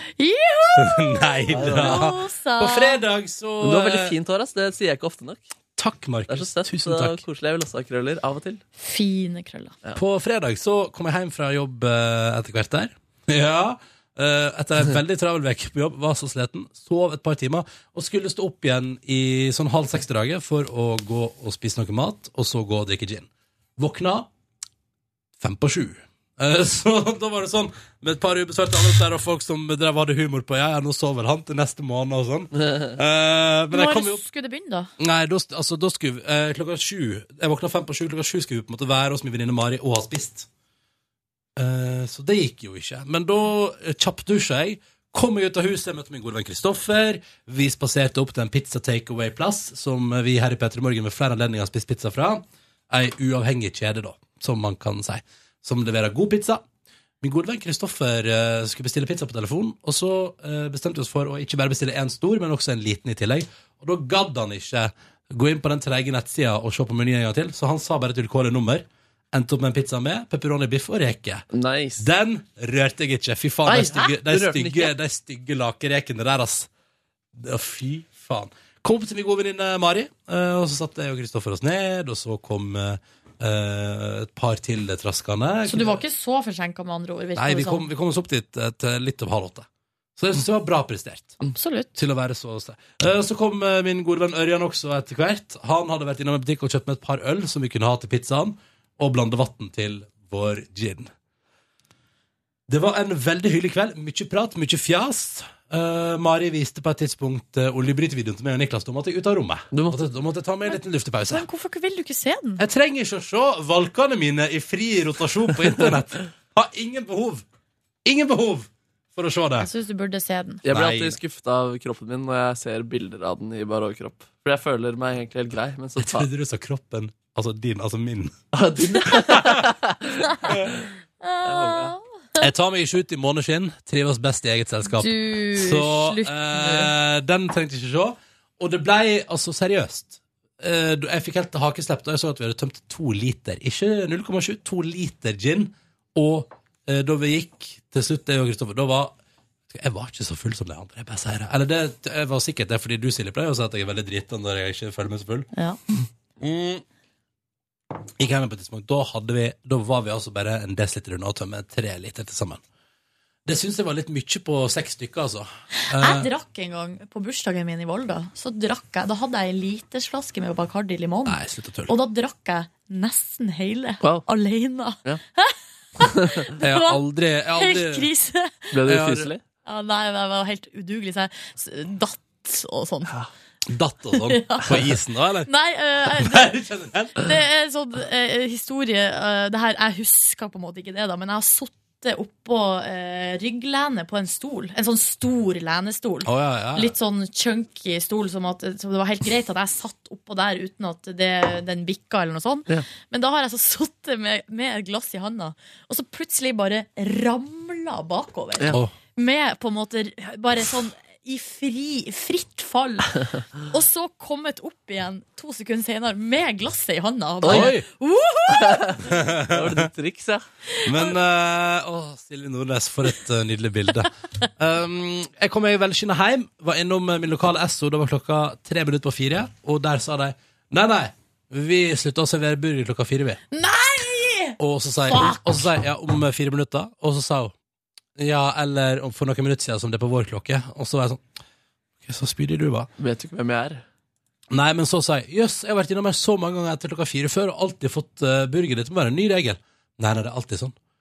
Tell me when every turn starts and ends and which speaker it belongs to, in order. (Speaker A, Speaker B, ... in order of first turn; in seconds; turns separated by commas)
Speaker A: 0.2-3.0, Speaker B: 0.8-4.2, Speaker C: 1.5-2.1, Speaker C: 3.6-5.4, Speaker B: 5.8-7.2, Speaker C: 6.3-8.6, Speaker A: 8.8-9.7, Speaker B: 9.9-24.3, Speaker B: 25.4-34.2, Speaker A: 33.7-34.9, Speaker B: 35.0-40.5, Speaker B: 41.5-56.6, Speaker B: 57.2-71.5, Speaker C: 71.5-72.1, Speaker B: 72.0-76.7, Speaker C: 73.7-74.9, Speaker B: 77.3-86.0, Speaker A: 85.7-87.9, Speaker B: 87.3-91.4, Speaker A: 91.5-91.9, Speaker B: 92.0-101.1, Speaker B: 102.7-111.5, Speaker C: 109.7-110.0, Speaker A: 111.3-112.6, Speaker B: 112.6-117.4, Speaker B: 118.0-119.7, Speaker A: 119.6-120.6, Speaker C: 120.6-126.3, Speaker B: 120.7-121.2, Speaker B: 126.0-128.4, Speaker C: 128.5-130.9, Speaker B: 129.1-129.7, Speaker A: 131.2-132.4, Speaker C: 131.4-131.9, Speaker B: 132.4-149.1, Speaker A: 134.8-136.9, Speaker B: 149.7-155.5, Speaker B: 156.4-156.8, Speaker B: 158.2-162.6, Speaker B: 163.4-166.3, Speaker A: 165.8-177.0, Speaker B: 171.2-171.9, Speaker C: 174.0-174.2, Speaker B: 176.6-178.1, Speaker A: 177.5-178.7, Speaker C: 178.7-179.4, Speaker B: 178.8-179.3, Speaker A: 179.6-183.1, Speaker B: 183.7-185.5, Speaker A: 184.2-184.9, Speaker A: 185.4-186.6, Speaker B: 186.0-187.2, Speaker A: 187.1-219.1, Speaker B: 196.2-196.9, Speaker C: 217.4-217.8, Speaker B: 217.4-217.8, Speaker C: 218.6-220.4, Speaker B: 219.1-219.9, Speaker A: 220.7-221.1, Speaker B: 220.8-233.4, Speaker A: 233.5-235.4, Speaker B: 234.6-237.5, Speaker B: 238.2-241.2, Speaker B: 242.0-242.9, Speaker C: 243.0-243.8, Speaker B: 244.5-250.7